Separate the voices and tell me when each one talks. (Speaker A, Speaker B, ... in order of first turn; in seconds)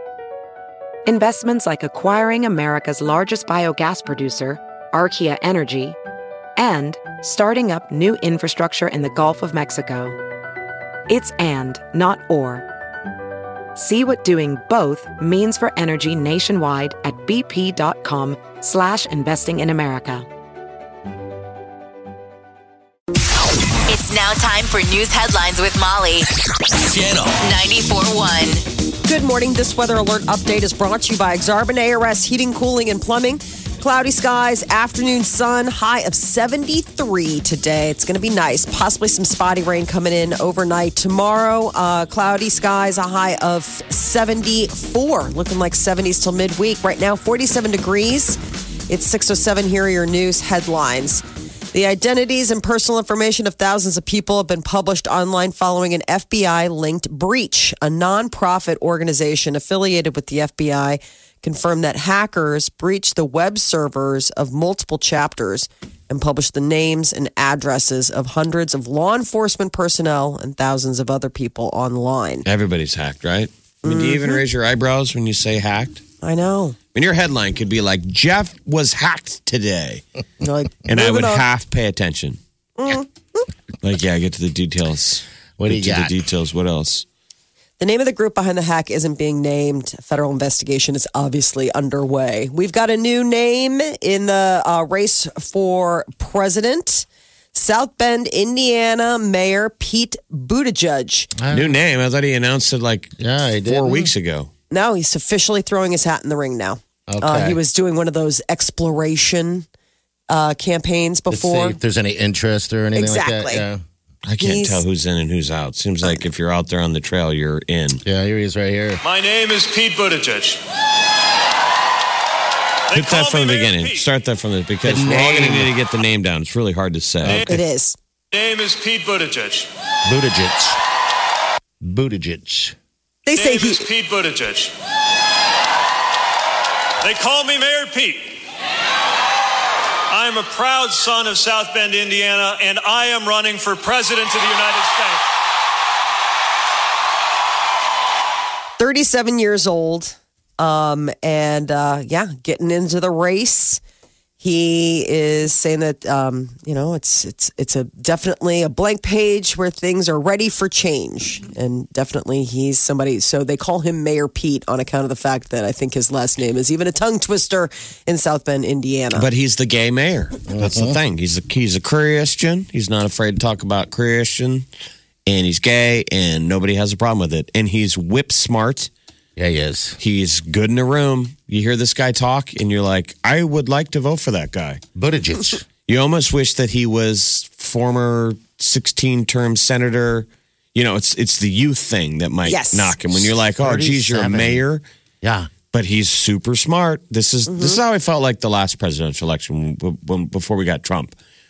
Speaker A: 1.1-6.0, 6.6-10.2, 11.1-12.7, 13.8-20.3
Speaker B: 23.9-26.3, 27.3-28.6
Speaker C: 29.1-72.4, 73.8-74.4, 76.2-76.8, 80.4-81.4, 82.8-83.4, 87.8-101.3, 104.7-109.7, 110.3-111.8, 112.9-113.6, 114.4-114.8, 127.5-128.0, 133.2-133.8, 148.8-153.8, 154.4-169.3, 192.4-192.9, 197.5-197.8
Speaker D: 72.5-76.0, 76.9-80.0, 80.9-82.4, 83.8-87.0, 101.5-104.5, 114.2-118.0, 122.9-127.5, 169.1-174.6, 175.2-178.9, 180.0-184.8, 185.9-194.8, 195.7-201.1
Speaker E: 85.6-86.1, 101.4-101.8, 103.2-104.1, 107.1-107.6, 111.3-113.8, 118.0-119.0, 124.8-125.7, 130.1-130.8, 131.8-132.8, 170.5-171.0, 179.4-180.0, 184.9-185.6, 193.1-194.6, 195.2-195.5
Speaker F: 119.0-120.6, 122.9-124.1, 128.3-129.7, 133.3-134.7, 137.0-138.4, 140.1-145.2